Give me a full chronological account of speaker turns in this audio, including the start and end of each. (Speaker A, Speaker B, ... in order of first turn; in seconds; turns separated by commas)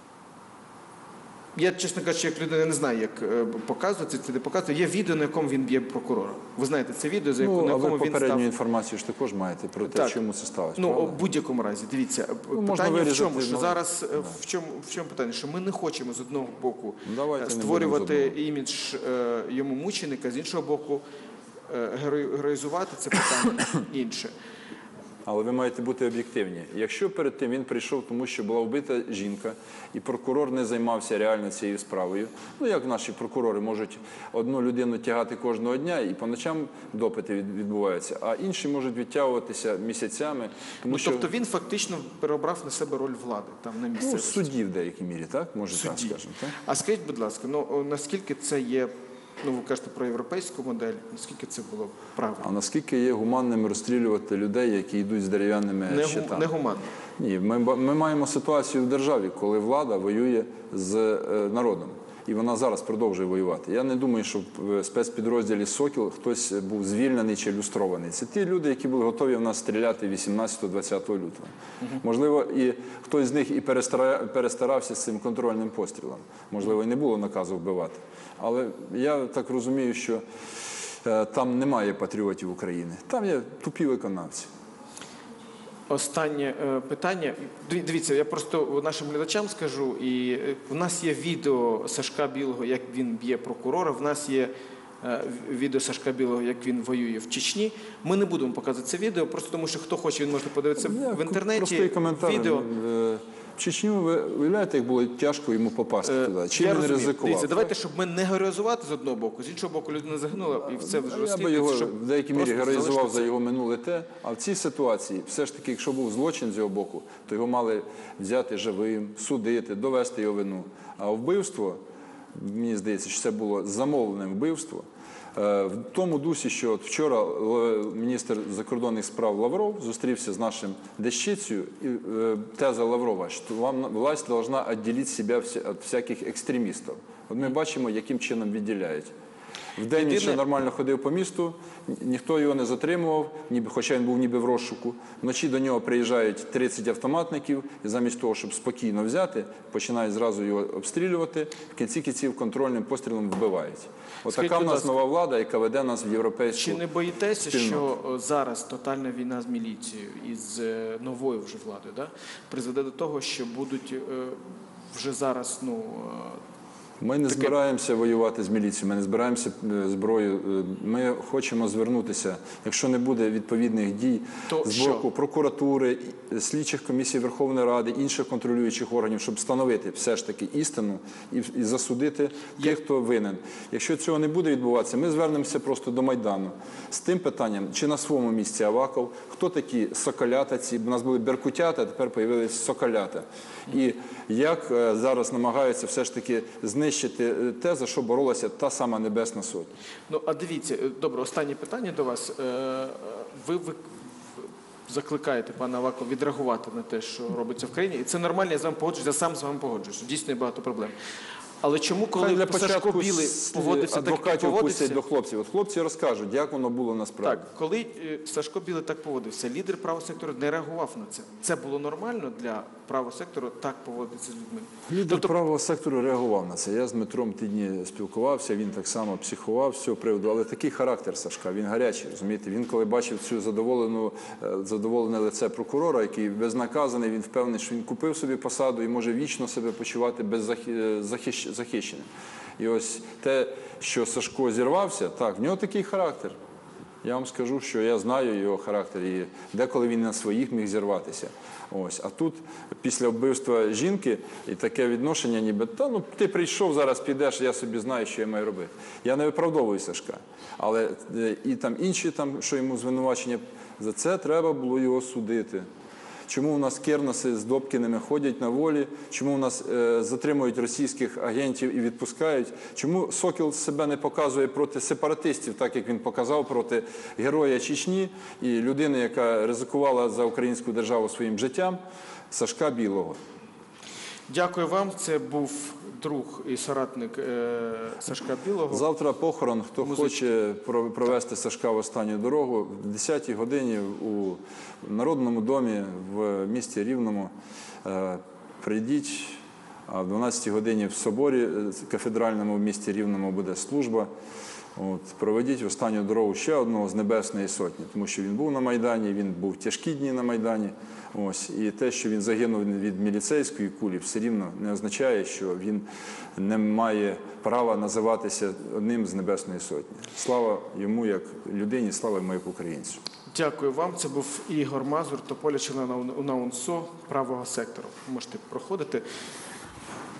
Speaker A: 1.5-8.4, Speaker B: 7.4-11.2, Speaker A: 9.8-10.2, Speaker A: 10.8-21.0, Speaker B: 12.5-14.4, Speaker B: 17.0-18.4, Speaker A: 21.7-24.3, Speaker B: 25.2-41.2, Speaker A: 40.9-44.5, Speaker B: 44.0-46.5, Speaker A: 45.7-52.4, Speaker B: 52.4-56.5, Speaker A: 55.9-56.9, Speaker B: 57.2-80.2, Speaker B: 81.0-84.5, Speaker A: 85.9-102.7, Speaker B: 100.8-107.7, Speaker A: 106.0-113.3, Speaker B: 110.6-121.8, Speaker B: 122.3-139.1, Speaker B: 139.8-156.8, Speaker A: 139.9-140.4, Speaker A: 154.3-154.9, Speaker A: 156.5-164.4, Speaker B: 157.4-157.8, Speaker A: 164.9-166.4, Speaker B: 167.0-199.7, Speaker A: 167.3-167.5, Speaker A: 174.5-175.0, Speaker A: 200.1-210.9, Speaker A: 211.6-215.0, Speaker B: 212.2-217.5, Speaker A: 217.2-225.3, Speaker B: 224.9-246.3, Speaker B: 247.0-265.7, Speaker B: 266.3-281.8, Speaker B: 282.3-283.2, Speaker A: 284.3-288.8, Speaker B: 288.7-297.3, Speaker A: 289.8-290.3, Speaker B: 297.8-304.1, Speaker B: 304.8-315.9, Speaker B: 316.4-323.0, Speaker A: 323.3-329.0